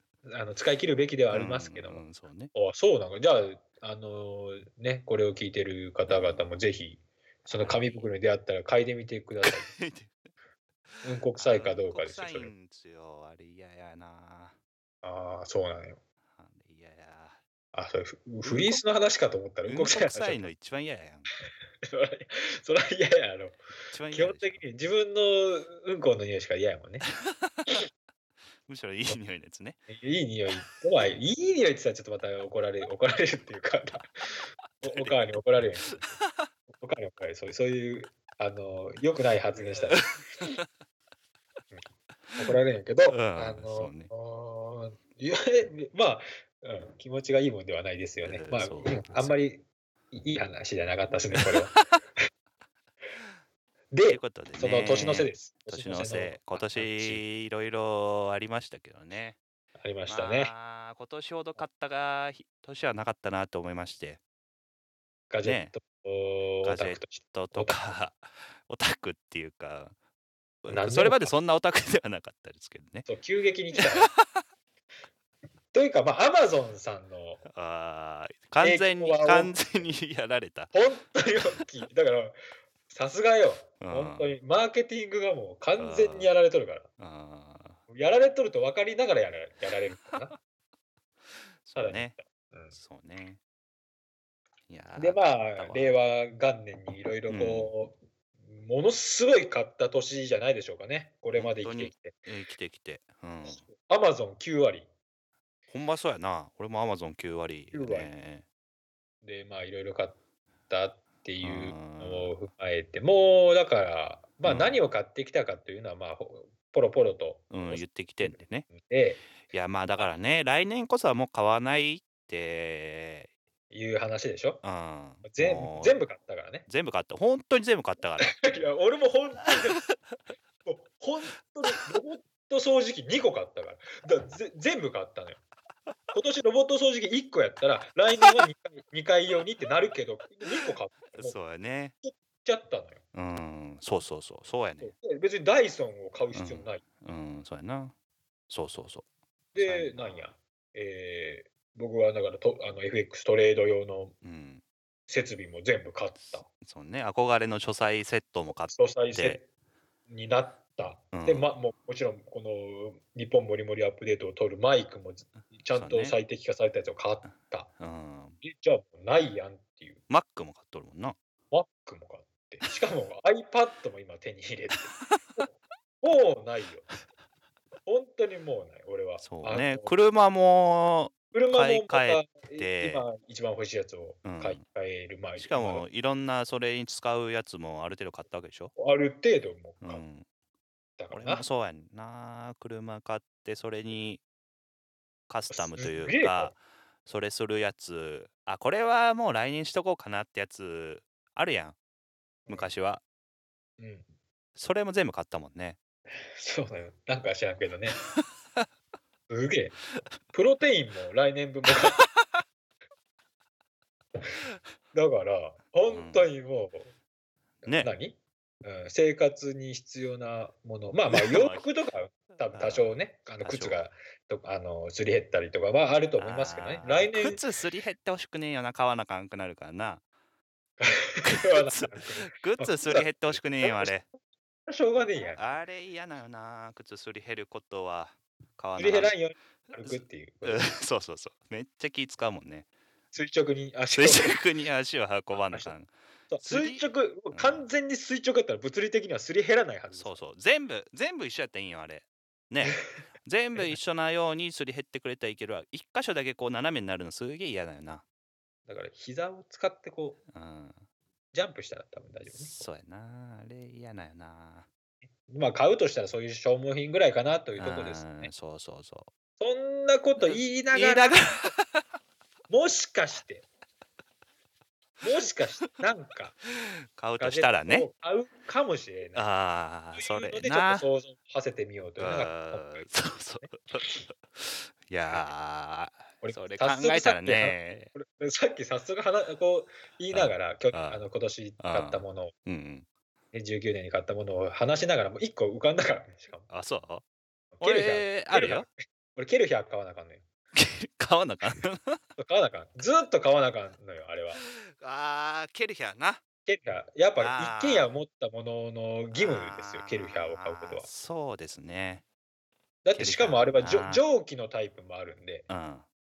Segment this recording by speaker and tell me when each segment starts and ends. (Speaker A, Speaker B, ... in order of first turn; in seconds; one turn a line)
Speaker A: 0.2-9.7
Speaker B: 1.3-2.5
Speaker B: 6.1-6.4
Speaker B: 7.5-8.1
Speaker B: 9.4-10.2
Speaker B: 10.9-14.6
Speaker A: 11.0-12.5
Speaker A: 15.0-16.0
Speaker B: 16.3-17.4
Speaker A: 17.7-20.5
Speaker B: 18.4-18.8
Speaker B: 19.7-21.3
Speaker A: 21.8-23.6
Speaker B: 23.9-24.6
Speaker A: 24.1-27.1
Speaker B: 27.1-27.8
Speaker B: 28.6-29.8
Speaker A: 29.9-36.1
Speaker B: 34.8-35.2
Speaker B: 35.9-36.5
Speaker A: 36.7-40.1
Speaker B: 39.9-40.5
Speaker A: 42.4-51.7
Speaker B: 43.1-44.1
Speaker B: 48.2-49.3
Speaker B: 51.3-52.0
Speaker A: 53.9-57.2
Speaker B: 54.1-59.4
Speaker A: 59.8-60.5
Speaker B: 60.1-64.2
Speaker A: 65.3-68.0
Speaker B: 65.4-65.7
Speaker B: 66.6-69.9
Speaker B: 70.6-73.1
Speaker A: 70.7-71.3
Speaker A: 73.0-74.1
Speaker B: 73.8-74.4
Speaker A: 75.7-77.4
Speaker B: 77.4-80.7
Speaker A: 78.6-79.7
Speaker A: 80.7-82.4
Speaker A: 82.9-86.9
Speaker B: 83.8-84.3
Speaker B: 85.8-86.3
Speaker B: 87.0-87.8
Speaker A: 87.9-90.3
Speaker B: 91.6-92.1
Speaker A: 91.8-92.7
Speaker B: 92.7-93.4
Speaker B: 94.7-95.9
Speaker A: 95.0-102.2
Speaker B: 97.3-97.7
Speaker B: 101.3-103.6
Speaker A: 103.4-104.9
Speaker B: 105.7-108.4
Speaker A: 107.7-108.1
Speaker A: 109.2-110.2
Speaker A: 110.7-119.2
Speaker B: 111.4-112.3
Speaker B: 114.4-114.8
Speaker B: 117.5-118.7
Speaker B: 119.5-123.3
Speaker A: 123.7-124.6
Speaker B: 124.6-126.0
Speaker A: 125.2-126.7
Speaker B: 126.7-128.4
Speaker A: 128.2-129.9
Speaker A: 130.6-135.4
Speaker A: 136.1-141.4
Speaker B: 141.1-141.9
Speaker A: 142.0-143.0
Speaker B: 143.1-144.9
Speaker A: 144.8-146.8
Speaker B: 146.3-147.9
Speaker B: 148.5-149.1
Speaker A: 149.5-154.2
Speaker B: 149.6-150.2
Speaker B: 154.2-154.6
Speaker A: 155.1-156.4
Speaker B: 156.2-159.4
Speaker A: 158.7-159.4
Speaker A: 160.1-167.7
Speaker B: 161.1-161.5
Speaker B: 165.7-166.2
Speaker B: 167.8-168.4
Speaker A: 168.4-170.0
Speaker B: 170.1-171.2
Speaker A: 171.5-175.4
Speaker A: 176.0-176.9
Speaker A: 177.8-179.9
Speaker B: 179.2-183.0
Speaker A: 181.3-185.8
Speaker B: 184.2-184.6
Speaker B: 185.4-188.7
Speaker A: 188.8-190.0
Speaker B: 189.8-190.2
Speaker A: 191.0-191.4
Speaker B: 191.1-194.2
Speaker B: 195.3-201.8
Speaker A: 195.5-196.5
Speaker A: 202.4-202.7
Speaker B: 202.5-203.0
Speaker A: 203.8-204.1
Speaker B: 204.6-205.8
Speaker A: 206.2-208.0
Speaker A: 209.3-209.8
Speaker A: 210.3-212.0
Speaker A: 214.9-216.9
Speaker B: 215.9-216.3
Speaker B: 217.6-217.9
Speaker A: 217.7-227.4
Speaker B: 221.1-221.6
Speaker B: 222.5-223.9
Speaker B: 226.2-230.0
Speaker A: 230.8-233.9
Speaker B: 231.2-234.0
Speaker A: 234.7-235.6
Speaker B: 235.3-239.1
Speaker A: 238.8-240.7
Speaker B: 239.8-242.7
Speaker A: 243.1-244.4
Speaker B: 243.9-245.9
Speaker A: 245.3-245.7
Speaker A: 246.3-250.2
Speaker B: 246.4-247.6
Speaker B: 249.9-258.0
Speaker A: 258.7-260.2
Speaker B: 260.3-260.8
Speaker A: 261.3-262.6
Speaker B: 262.3-264.7
Speaker A: 265.2-268.3
Speaker B: 267.6-269.1
Speaker A: 269.4-271.2
Speaker B: 270.2-271.8
Speaker A: 272.5-273.4
Speaker A: 275.0-276.4
Speaker B: 276.9-277.9
Speaker A: 277.2-279.3
Speaker B: 279.1-280.9
Speaker A: 279.9-284.1
Speaker B: 282.0-287.9
Speaker A: 286.2-292.3
Speaker B: 290.1-291.0
Speaker B: 291.6-292.9
Speaker A: 293.3-296.5
Speaker B: 296.5-297.0
Speaker A: 297.5-300.2
Speaker B: 297.6-298.7
Speaker B: 300.5-302.0
Speaker A: 302.2-304.4
Speaker B: 304.7-306.2
Speaker A: 306.4-310.9
Speaker B: 307.2-307.9
Speaker B: 309.1-312.0
Speaker A: 312.8-315.5
Speaker B: 312.9-314.0
Speaker B: 315.5-315.9